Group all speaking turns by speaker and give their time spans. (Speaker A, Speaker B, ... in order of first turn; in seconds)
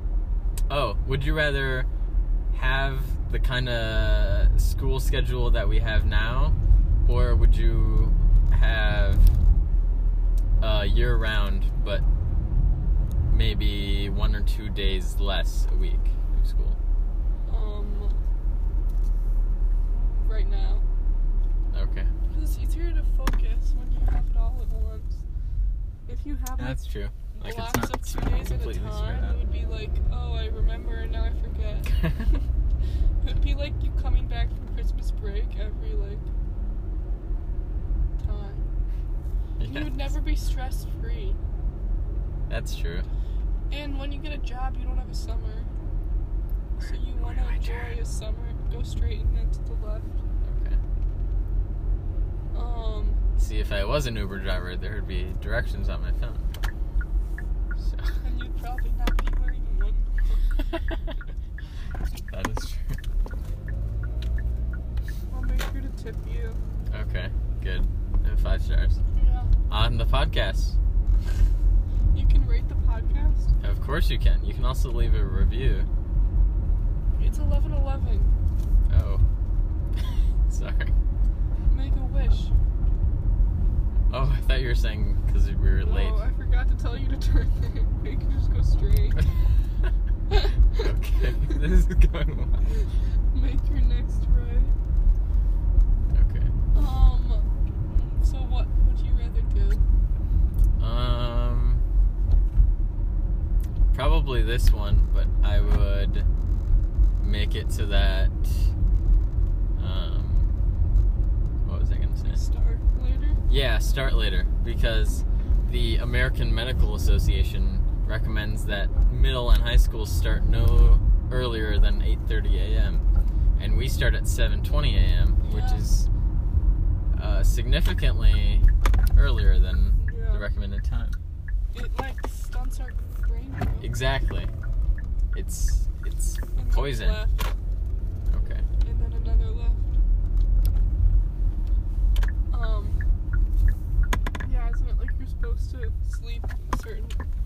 Speaker A: 0.7-1.9, 2.5-9.3, 10.6-12.0, 13.3-16.8, 21.7-22.1, 26.6-29.4, 39.6-40.1, 42.5-43.1, 46.8-48.0, 50.4-50.8, 53.4-56.5, 57.8-58.2, 60.7-61.0, 62.2-63.0, 66.9-69.0, 69.7-70.8, 73.6-75.9, 78.9-79.2, 80.5-80.9, 84.1-86.2, 90.8-92.7, 96.1-96.5, 100.8-101.8, 103.9-106.3, 107.2-108.7, 109.8-110.5, 111.6-112.4, 113.5-123.0, 123.6-126.1, 127.1-131.2, 133.8-134.5, 135.3-137.2, 138.3-138.7
Speaker B: 17.5-18.2, 20.2-20.9, 22.3-25.2, 26.1-26.8, 27.3-32.4, 33.2-36.2, 38.2-38.7, 39.6-41.4, 43.7-45.7, 46.8-50.2, 52.5-53.2, 58.2-60.5, 65.3-66.6, 69.2-69.5, 72.1-73.5, 77.2-78.3, 81.7-82.5, 85.8-89.3, 90.3-90.9, 93.3-94.8, 96.7-99.8, 112.2-113.4, 125.4-125.9, 130.0-130.5, 131.7-134.0, 136.6-137.6, 138.8-140.0, 142.5-143.0, 144.4-147.2